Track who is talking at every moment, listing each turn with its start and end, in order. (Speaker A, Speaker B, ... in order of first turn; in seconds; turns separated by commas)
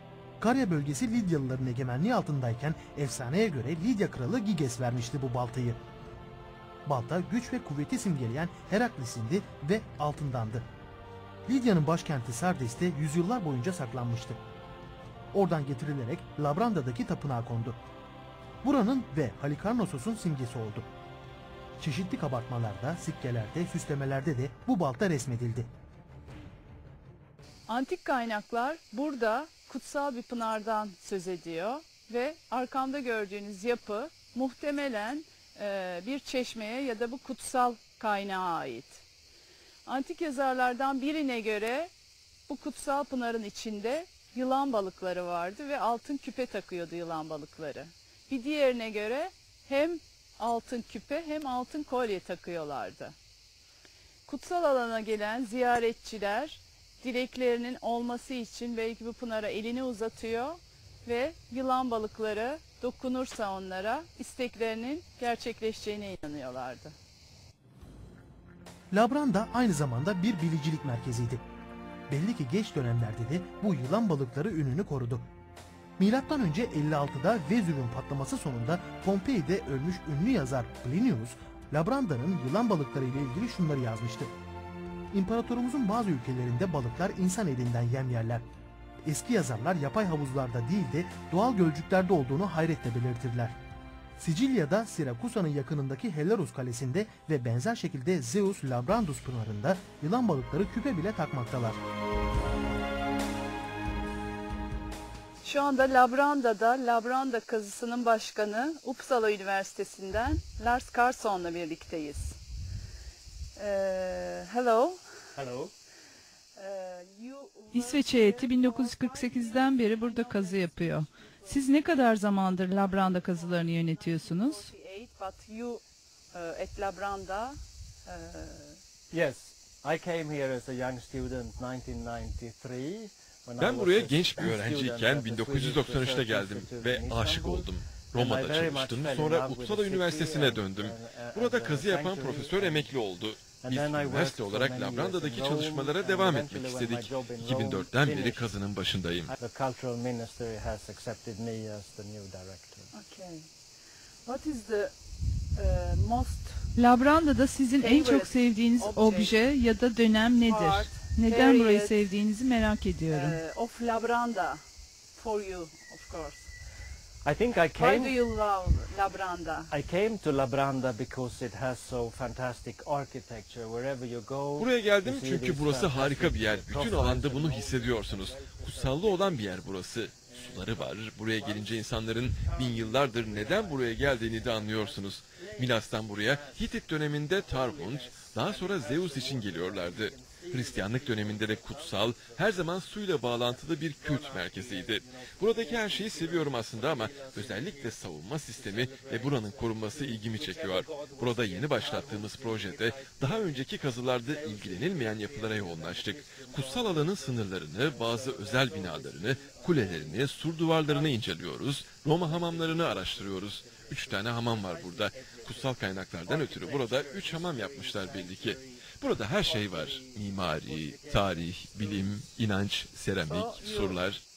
Speaker A: 0.4-5.8, Speaker A: 6.8-10.7, Speaker A: 11.4-14.4, Speaker A: 15.3-17.8, Speaker A: 18.6-20.9, Speaker A: 21.8-25.7, Speaker B: 27.7-39.0, Speaker B: 39.9-41.9, Speaker B: 42.5-53.1, Speaker B: 54.3-66.9, Speaker A: 68.9-71.4, Speaker A: 72.1-75.2, Speaker A: 76.0-84.3, Speaker A: 85.1-88.4, Speaker A: 89.0-93.5, Speaker A: 94.2-101.8, Speaker B: 105.4-112.4, Speaker B: 113.6-115.0, Speaker C: 115.3-115.7, Speaker B: 116.6-122.0, Speaker D: 117.7-124.7, Speaker B: 122.8-125.8, Speaker B: 126.3-128.7, Speaker C: 129.1-142.9, Speaker E: 133.6-149.3, Speaker C: 143.6-148.5, Speaker C: 149.3-152.9, Speaker B: 152.9-153.4, Speaker B: 154.2-154.9, Speaker B: 155.6-157.0, Speaker D: 156.8-163.4, Speaker B: 157.8-159.4, Speaker B: 160.4-162.1, Speaker B: 163.1-164.6, Speaker B: 165.2-166.4, Speaker C: 167.2-168.2, Speaker B: 167.8-169.7, Speaker C: 169.7-211.3, Speaker E: 174.6-224.2, Speaker C: 212.1-222.1, Speaker B: 223.3-224.0